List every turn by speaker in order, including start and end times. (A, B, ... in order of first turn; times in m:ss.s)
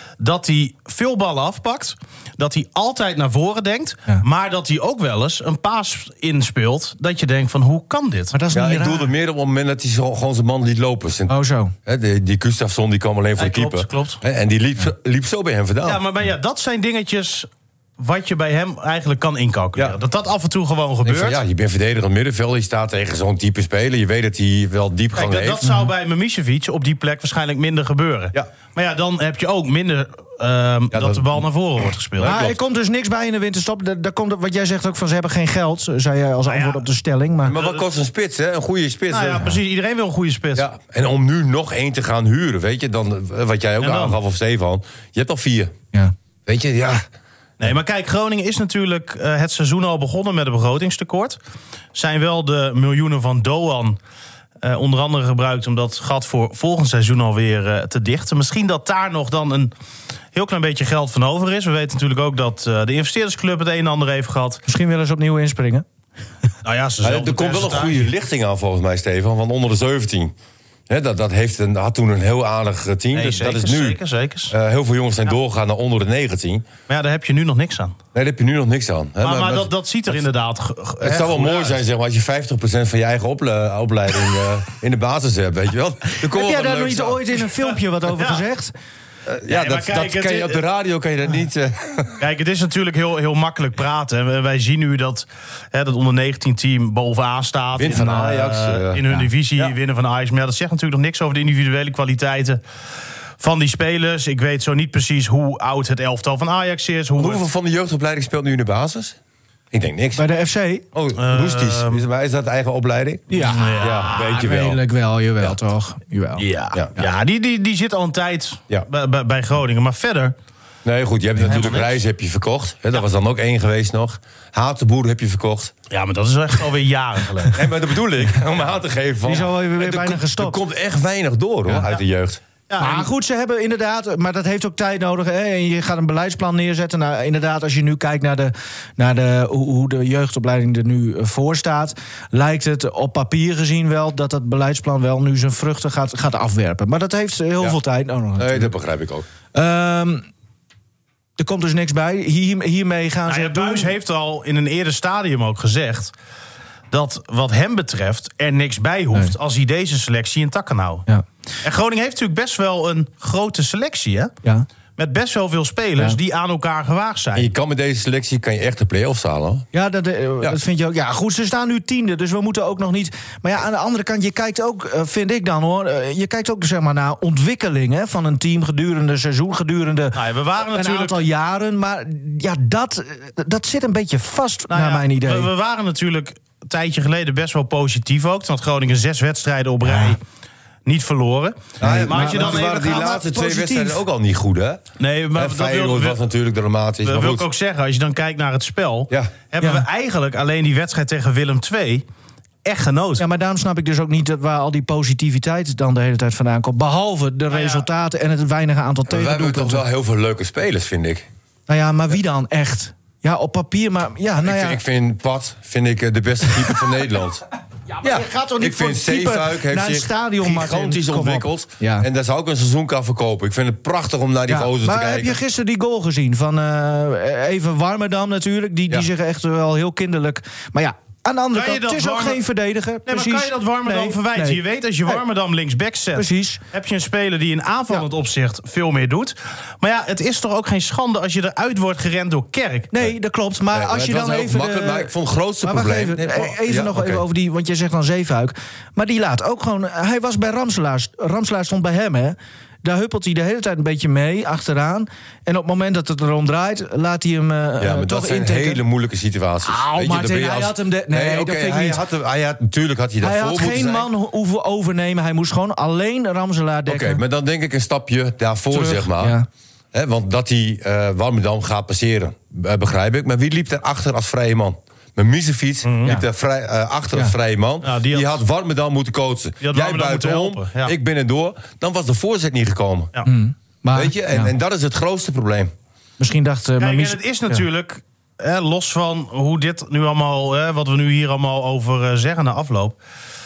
0:00.2-0:08.3 A
0:08.3-0:09.1 B
0:08.5-0:16.0 C
0:11.3-0:11.7 B
0:13.4-0:14.2 A
0:15.8-0:21.4 A
0:21.0-0:25.6 C
0:25.2-0:32.4 A
0:30.9-0:31.4 C
0:32.2-0:32.6 C
0:32.2-0:37.6 B
0:36.5-0:36.8 A
0:37.4-0:39.6 C
0:37.5-0:37.8 A
0:39.1-0:40.7 A
0:40.6-0:45.8 C
0:43.8-0:44.2 A
0:46.5-0:47.0 C
0:47.6-0:51.4 A
0:51.9-0:54.0 A
0:54.6-0:59.7 A
1:00.3-1:04.6 A
1:04.7-1:05.8 B
1:06.6-1:08.1 A
1:07.0-1:10.3 C
1:10.9-1:16.7 C
1:13.1-1:14.5 A
1:16.9-1:18.0 A
1:18.1-1:19.7 C
1:19.2-1:21.8 A
1:21.0-1:27.2 C
1:26.2-1:28.7 B
1:28.2-1:28.4 A
1:29.3-1:32.2 C
1:29.5-1:30.6 A
1:32.2-1:42.6 A
1:37.8-1:39.0 C
1:43.4-1:47.4 A
1:47.2-1:49.2 C
1:49.7-1:50.2 C
1:50.2-1:50.8 B
1:50.9-1:54.8 C
1:51.2-1:52.0 A
1:53.3-1:56.4 B
1:53.5-1:54.2 A
1:56.4-2:00.4 A
2:00.8-2:05.7 C
2:01.4-2:02.0 A
2:05.9-2:07.7 A
2:07.5-2:12.4 C
2:09.3-2:10.6 B
2:12.7-2:13.1 A
2:12.8-2:28.7 B
2:28.4-2:29.3 C
2:29.5-2:30.3 B
2:31.4-2:33.9 B
2:33.3-2:36.1 A
2:36.9-2:41.1 A
2:41.6-2:44.3 A
2:45.0-2:47.5 A
2:47.4-2:49.7 C
2:49.7-3:05.5 B
3:00.1-3:01.2 A
3:04.7-3:10.2 A
3:10.8-3:13.0 A
3:11.8-3:14.0 B
3:11.8-3:17.5 C
3:15.0-3:16.2 A
3:17.0-3:22.0 A
3:19.6-3:19.8 B
3:22.6-3:23.2 A
3:23.2-3:29.8 B
3:27.5-3:27.9 A
3:29.1-3:31.3 C
3:31.7-3:34.8 B
3:34.4-3:37.4 C
3:37.9-3:42.1 B
3:38.0-3:45.4 C
3:44.5-3:55.2 B
3:51.5-3:52.4 A
3:53.1-4:02.9 A
3:56.2-3:56.6 B
4:02.9-4:18.8 B
4:03.7-4:07.2 C
4:17.8-4:24.1 C
4:19.7-4:22.0 B
4:23.2-4:27.2 B
4:26.9-4:29.4 C
4:28.7-4:29.5 B
4:29.9-4:43.2 C
4:35.8-4:36.2 A
4:37.8-4:38.4 A
4:39.6-4:41.0 A
4:43.2-4:44.5 B
4:43.9-4:45.7 C
4:46.2-4:47.6 B
4:46.8-4:53.0 A